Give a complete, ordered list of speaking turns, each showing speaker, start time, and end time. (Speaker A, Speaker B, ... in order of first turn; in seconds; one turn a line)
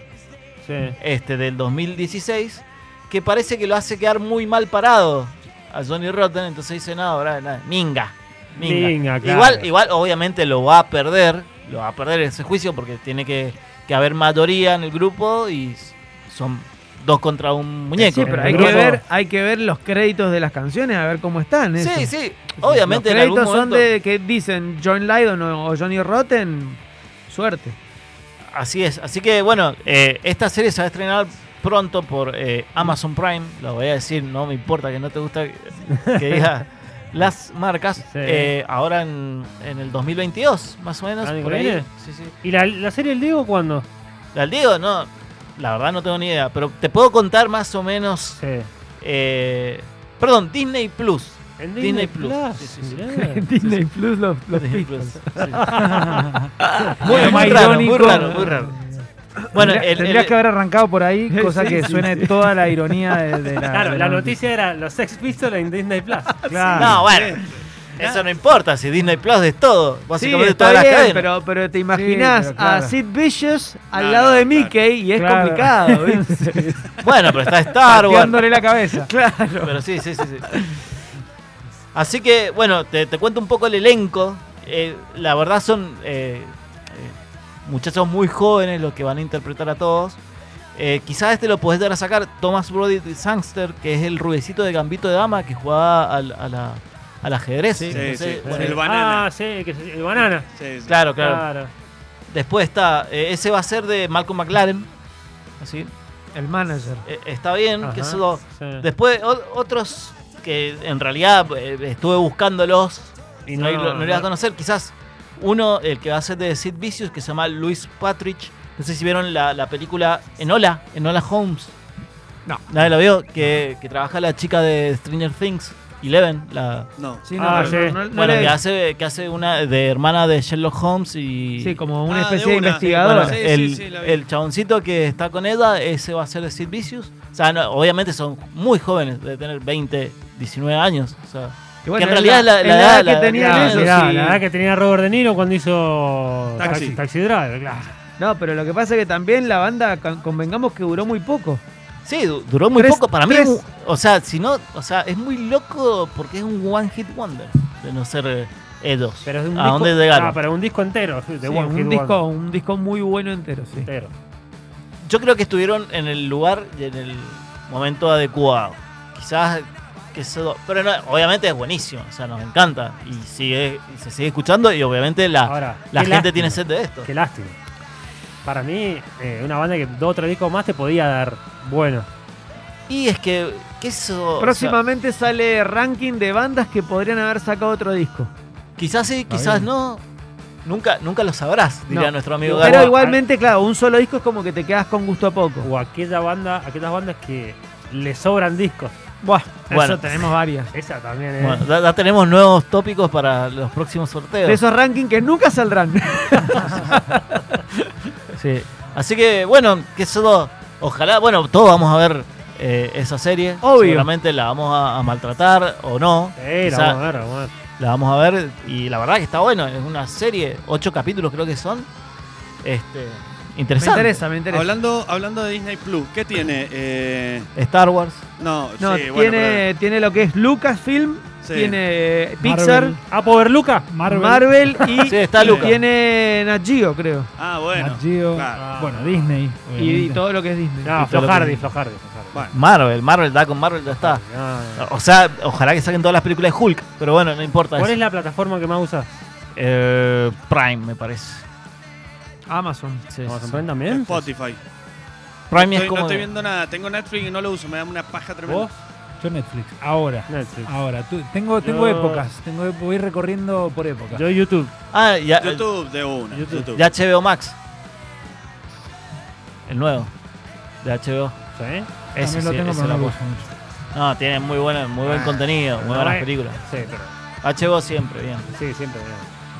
Speaker A: 0.6-1.0
Speaker B: 1.0-19.0
Speaker A: 8.6-9.7
Speaker C: 18.0-27.8
Speaker A: 18.2-19.0
Speaker B: 21.8-23.9
Speaker B: 28.5-42.3
Speaker A: 38.0-38.5
Speaker A: 41.2-41.9
Speaker A: 42.4-43.9
Speaker B: 44.3-48.4
Speaker A: 48.4-48.7
Speaker B: 49.0-53.0
Speaker A: 51.6-53.5
Speaker C: 53.1-55.5
Speaker B: 54.5-55.7
Speaker A: 55.6-56.3
Speaker D: 55.7-58.7
Speaker C: 56.6-58.2
Speaker B: 56.9-58.7
Speaker B: 59.5-60.3
Speaker D: 59.6-64.4
Speaker C: 61.3-63.1
Speaker A: 63.7-67.0
Speaker D: 66.5-67.0
Speaker B: 66.7-71.3
Speaker E: 67.0-67.5
Speaker C: 70.1-76.8
Speaker D: 71.9-72.9
Speaker E: 73.9-74.7
Speaker D: 75.2-76.7
Speaker B: 77.0-78.4
Speaker D: 77.8-79.1
Speaker C: 78.8-79.8
Speaker B: 79.6-80.5
Speaker C: 80.5-80.8
Speaker B: 81.9-90.2
Speaker B: 90.8-98.8
Speaker C: 97.8-98.0
Speaker E: 97.9-99.3
Speaker A: 98.4-100.5
Speaker E: 100.5-101.0
Speaker B: 100.8-101.5
Speaker A: 101.2-101.7
Speaker B: 102.3-104.9
Speaker B: 105.6-105.9
Speaker C: 106.3-107.0
Speaker B: 107.0-121.8
Speaker A: 107.8-108.8
Speaker A: 113.5-114.3
Speaker B: 122.7-126.9
Speaker E: 127.0-127.9
Speaker C: 127.2-128.6
Speaker A: 127.4-128.0
Speaker B: 128.1-131.8
Speaker C: 131.6-133.4
Speaker E: 132.1-134.2
Speaker B: 133.0-144.0
Speaker C: 141.8-144.4
Speaker A: 143.3-147.9
Speaker E: 146.6-147.0
Speaker C: 148.2-151.6
Speaker B: 152.0-160.4
Speaker C: 152.7-153.6
Speaker A: 159.2-162.2
Speaker C: 161.4-163.9
Speaker A: 163.8-164.1
Speaker B: 165.0-177.1
Speaker A: 175.4-177.6
Speaker A: 178.4-182.1
Speaker B: 182.9-184.8
Speaker C: 184.4-188.3
Speaker B: 188.8-190.0
Speaker D: 189.3-189.6
Speaker B: 190.6-192.9
Speaker C: 192.4-195.7
Speaker A: 192.5-193.2
Speaker A: 195.6-198.9
Speaker C: 199.2-200.7
Speaker B: 199.7-200.3
Speaker A: 200.7-201.7
Speaker B: 201.4-204.6
Speaker C: 204.4-207.8
Speaker B: 208.3-217.1
Speaker C: 213.6-214.1
Speaker A: 216.4-217.5
Speaker B: 217.8-221.9
Speaker B: 222.6-224.2
Speaker C: 223.8-224.7
Speaker E: 224.5-227.5
Speaker B: 227.5-228.3
Speaker E: 228.4-229.7
Speaker C: 228.8-233.0
Speaker E: 231.4-231.8
Speaker D: 232.4-233.0
Speaker A: 233.1-233.9
Speaker D: 233.9-234.7
Speaker C: 234.0-237.3
Speaker B: 235.0-235.8
Speaker E: 235.3-235.7
Speaker E: 237.4-238.7
Speaker D: 237.7-240.2
Speaker A: 238.5-239.4
Speaker C: 239.8-241.1
Speaker A: 240.8-242.5
Speaker B: 241.0-241.7
Speaker B: 242.5-244.2
Speaker A: 243.9-244.9
Speaker B: 244.8-248.0
Speaker A: 247.8-249.2
Speaker B: 249.5-251.4
Speaker C: 252.5-253.0
Speaker B: 253.1-253.6
Speaker A: 253.2-254.3
Speaker E: 253.9-254.6
Speaker B: 255.5-256.3
Speaker E: 255.5-258.7
Speaker A: 258.4-258.7
Speaker D: 259.2-264.2
Speaker A: 260.3-260.7
Speaker A: 261.6-262.3
Speaker A: 264.1-264.7
Speaker B: 264.9-265.7
Speaker E: 265.4-266.8
Speaker A: 266.3-266.7
Speaker B: 266.6-267.6
Speaker B: 269.7-270.1
Speaker B: 270.8-271.4
Speaker A: 271.5-271.9
Speaker D: 272.1-273.5
Speaker B: 272.2-273.1
Speaker B: 273.9-276.6
Speaker E: 275.1-275.4
Speaker A: 275.8-277.1
Speaker B: 277.4-278.5
Speaker A: 278.5-279.3